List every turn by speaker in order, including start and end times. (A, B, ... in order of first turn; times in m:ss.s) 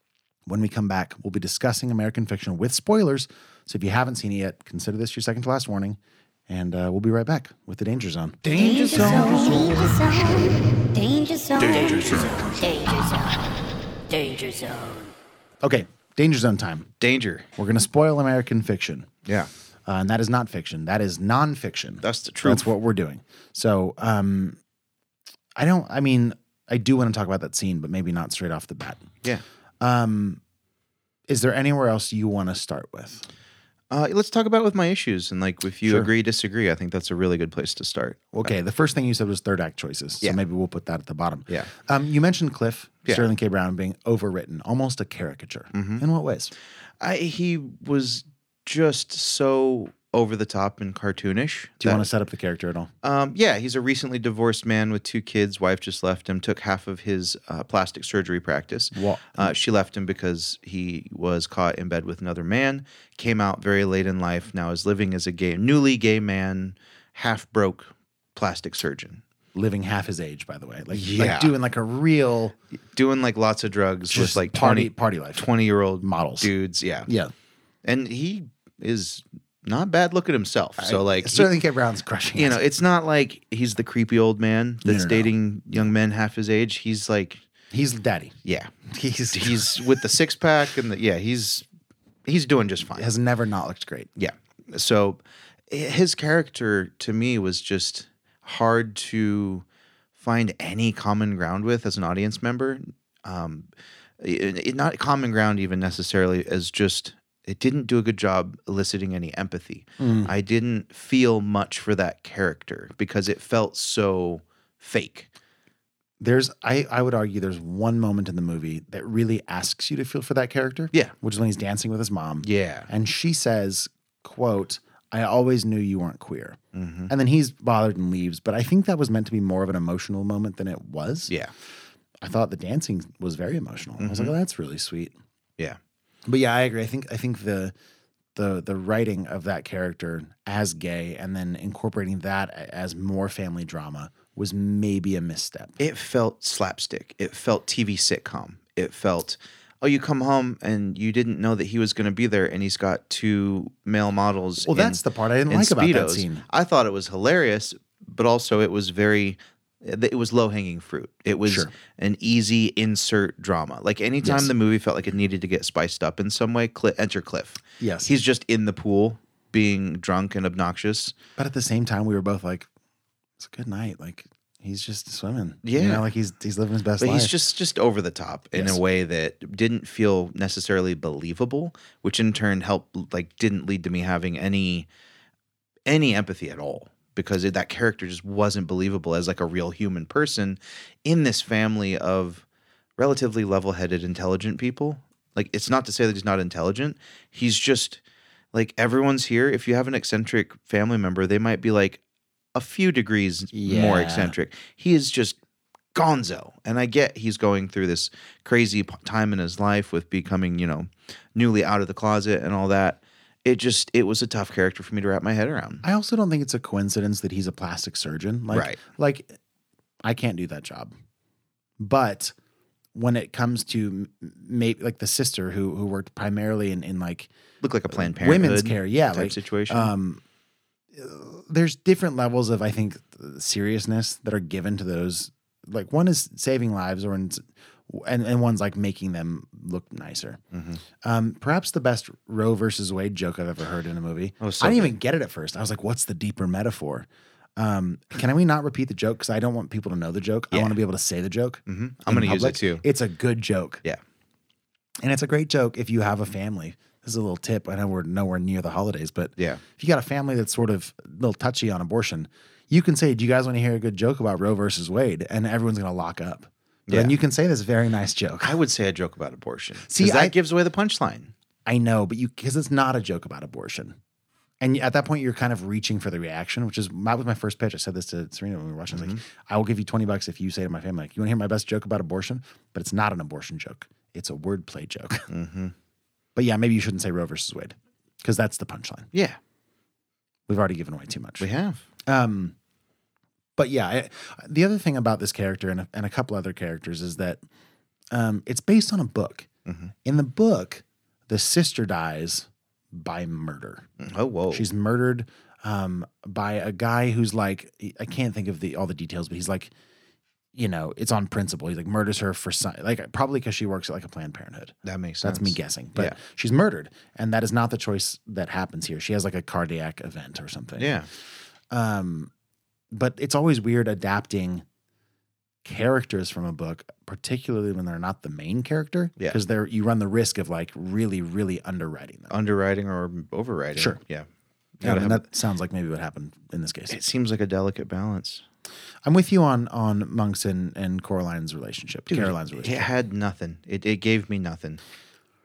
0:00.4-0:09.8 A
0:08.4-0:09.8 B
0:08.5-0:13.4 C
0:11.6-0:12.3 B
0:14.1-0:15.1 C
0:15.6-0:16.9 A
0:17.0-0:17.5 B
0:17.6-0:19.1 A
0:19.8-0:24.6 A
0:22.0-0:22.7 B
0:25.6-0:29.1 A
0:29.8-0:30.4 A
0:31.3-0:33.2 A
0:33.9-0:38.5 B
0:35.8-0:36.1 A
0:38.3-0:46.5 A
0:45.7-0:46.0 B
0:47.0-0:52.1 B
0:51.8-0:52.9 A
0:53.0-1:09.2 B
0:58.9-0:59.5 A
1:09.5-1:12.6 A
1:10.9-1:11.5 B
1:12.9-1:17.1 B
1:14.1-1:15.5 A
1:16.0-1:16.5 A
1:17.0-1:17.3 A
1:17.8-1:21.5 B
1:20.8-1:22.6 A
1:22.3-1:27.4 B
1:24.8-1:25.3 A
1:27.7-1:28.4 A
1:28.4-1:28.7 B
1:28.9-1:30.1 A
1:29.3-1:31.6 B
1:32.3-1:33.1 B
1:32.9-1:34.1 A
1:34.2-1:39.6 B
1:40.2-1:43.7 B
1:44.2-1:55.3 B
1:50.0-1:50.3 A
1:56.2-2:06.6 A
2:02.4-2:02.9 B
2:06.7-2:07.1 B
2:07.1-2:11.3 A
2:12.2-2:15.1 A
2:14.0-2:14.3 B
2:16.2-2:17.7 A
2:18.3-2:25.8 A
2:25.8-2:51.2 B
2:34.6-2:36.4 A
2:41.4-2:41.7 A
2:44.2-2:44.5 A
2:47.8-2:48.1 A
2:51.4-2:52.7 A
2:53.4-2:57.4 A
2:55.6-2:56.0 B
2:57.0-3:04.9 B
2:58.5-2:58.8 A
3:05.9-3:12.4 B
3:13.0-3:18.0 B
3:18.5-3:22.0 B
3:22.5-3:25.4 B
3:23.5-3:24.3 A
3:25.9-3:35.8 B
3:35.8-3:39.3 A
3:38.5-3:38.8 B
3:40.0-3:40.9 A
3:41.8-3:42.3 A
3:42.9-3:47.3 A
3:47.6-3:49.9 B
3:47.9-3:50.2 A
3:50.9-4:00.4 A
4:00.5-4:00.8 B
4:01.0-4:13.8 A
4:04.4-4:04.9 B
4:10.5-4:10.8 B
4:11.7-4:12.8 B
4:15.0-4:28.6 A
4:19.4-4:19.6 B
4:26.9-4:27.1 B
4:28.4-4:31.3 B
4:29.8-4:30.4 A
4:31.6-4:34.0 A
4:34.6-4:45.3 A
4:38.9-4:39.2 B
4:45.3-4:45.7 B
4:46.4-4:49.1 A
4:49.1-4:49.4 B
4:50.5-4:51.5 A
4:51.4-4:51.8 B
4:52.0-4:52.5 A
4:53.6-4:57.4 A
4:58.1-4:59.5 A
4:59.6-4:59.9 B
5:00.0-5:03.9 A
5:04.0-5:04.7 B
5:04.5-5:09.7 A
5:10.5-5:21.0 A
5:14.8-5:16.2 B
5:20.8-5:21.1 B
5:21.7-5:22.3 A
5:22.9-5:24.6 A
5:25.6-5:32.3 A
5:32.3-5:34.3 B
5:34.8-5:35.2 B
5:34.8-5:37.0 A
5:36.9-5:38.4 B
5:39.0-5:42.8 A
5:42.1-5:44.8 B